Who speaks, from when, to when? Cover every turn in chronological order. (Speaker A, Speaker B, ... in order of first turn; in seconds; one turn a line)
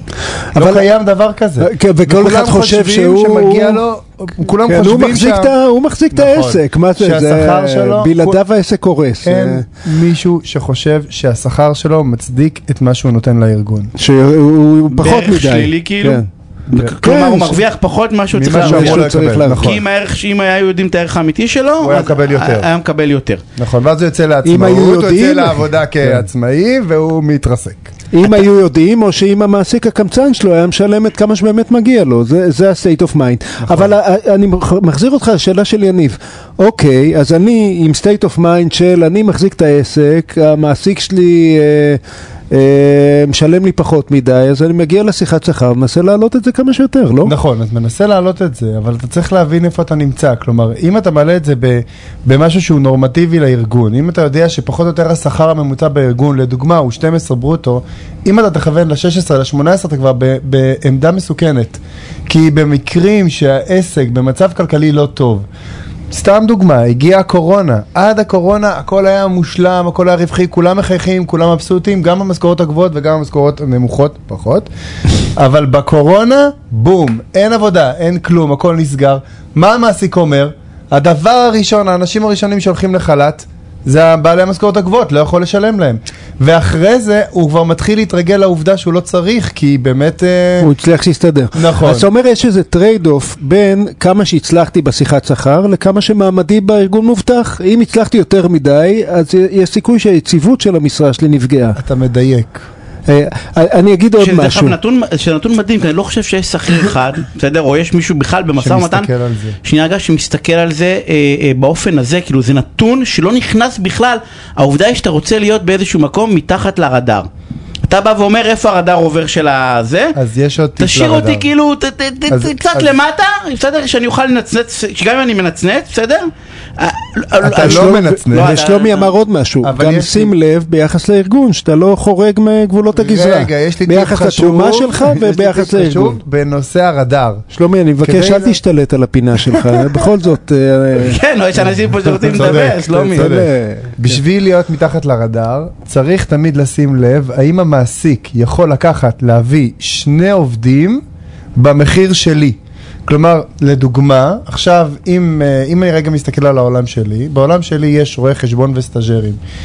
Speaker A: 0.5-0.9
Speaker B: 0.6-5.5
Speaker A: 1.6-3.8
Speaker A: 4.7-9.7
Speaker B: 6.1-8.4
Speaker B: 9.2-13.9
Speaker A: 14.0-16.3
Speaker C: 14.9-23.4
Speaker A: 17.0-17.6
Speaker B: 18.3-19.8
Speaker A: 18.5-19.8
Speaker B: 21.8-22.7
Speaker B: 23.6-27.9
Speaker A: 24.4-26.3
Speaker A: 28.1-42.0
Speaker B: 33.6-33.9
Speaker A: 42.5-47.4
Speaker B: 47.2-65.5
Speaker B: 66.1-74.7
Speaker B: 75.4-90.7
Speaker A: 90.6-101.8
Speaker B: 91.5-92.1
Speaker B: 101.8-102.6
Speaker A: 103.1-104.8
Speaker C: 104.2-109.1
Speaker B: 108.6-109.6
Speaker C: 109.6-117.3
Speaker C: 117.9-120.2
Speaker B: 120.2-121.5
Speaker C: 120.8-129.1
Speaker B: 122.3-122.9
Speaker B: 127.4-128.5
Speaker A: 127.5-136.2
Speaker B: 129.6-130.3
Speaker B: 133.0-137.5
Speaker A: 137.5-141.2
Speaker B: 138.0-138.6
Speaker B: 139.7-140.0
Speaker C: 141.0-143.3
Speaker A: 142.1-144.2
Speaker B: 142.3-151.0
Speaker B: 151.6-159.4